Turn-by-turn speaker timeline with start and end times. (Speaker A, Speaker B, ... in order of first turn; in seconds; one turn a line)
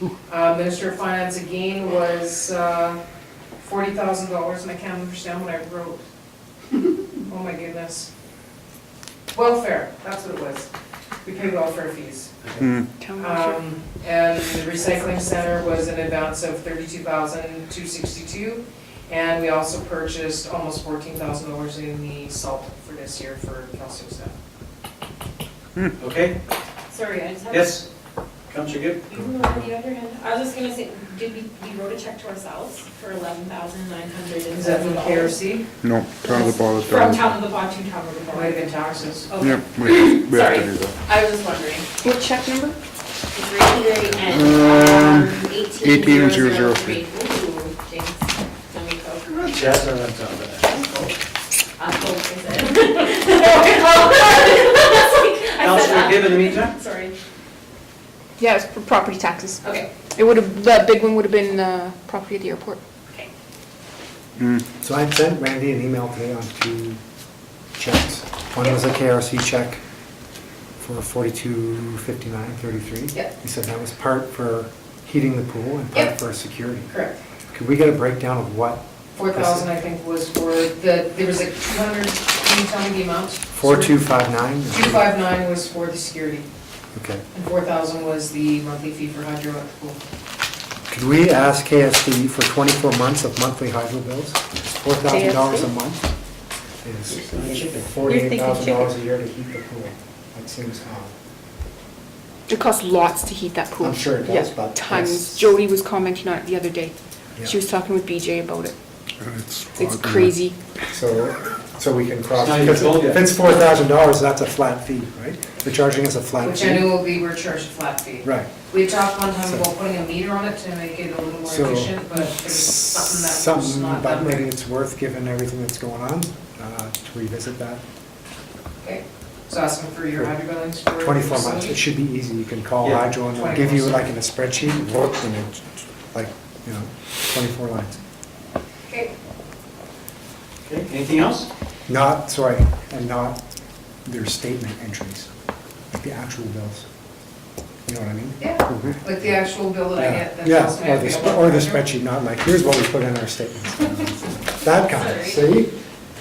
Speaker A: 0.2-3.0
Speaker A: 3.6-6.0
Speaker A: 7.2-8.1
Speaker A: 9.3-10.7
Speaker A: 11.2-12.3
Speaker B: 12.4-12.8
Speaker C: 13.0-13.6
Speaker A: 13.1-24.3
Speaker B: 26.0-26.4
Speaker D: 26.9-27.8
Speaker B: 27.5-27.8
Speaker B: 28.5-29.1
Speaker D: 29.1-35.4
Speaker A: 34.5-35.7
Speaker E: 35.8-37.3
Speaker D: 36.2-38.6
Speaker A: 38.3-39.4
Speaker D: 39.3-41.9
Speaker E: 39.4-41.0
Speaker C: 42.0-42.8
Speaker D: 43.3-49.3
Speaker E: 44.3-47.0
Speaker B: 49.3-51.1
Speaker D: 51.8-57.1
Speaker B: 55.6-56.7
Speaker C: 58.4-59.6
Speaker D: 59.6-59.9
Speaker C: 60.1-62.8
Speaker F: 64.8-67.0
Speaker F: 67.8-69.8
Speaker F: 70.8-76.9
Speaker A: 76.9-77.2
Speaker F: 77.5-79.7
Speaker A: 79.1-84.0
Speaker F: 83.5-85.0
Speaker A: 84.7-86.5
Speaker F: 86.9-87.2
Speaker A: 87.3-90.0
Speaker F: 90.9-96.1
Speaker C: 95.1-95.5
Speaker F: 96.8-101.1
Speaker B: 97.2-98.0
Speaker C: 102.5-108.7
Speaker F: 103.8-105.5
Speaker E: 109.2-110.4
Speaker C: 109.7-110.5
Speaker F: 110.9-117.0
Speaker B: 112.3-113.3
Speaker A: 116.4-124.5
Speaker F: 118.2-118.5
Speaker F: 121.5-127.8
Speaker A: 128.8-131.8
Speaker F: 130.9-138.0
Speaker B: 132.8-133.1
Speaker A: 133.3-134.0
Speaker B: 140.6-141.5
Speaker F: 141.9-143.4
Speaker F: 144.0-145.3
Speaker F: 145.9-146.8
Speaker F: 147.8-149.2
Speaker A: 148.4-151.8
Speaker F: 149.9-155.8
Speaker D: 154.7-155.5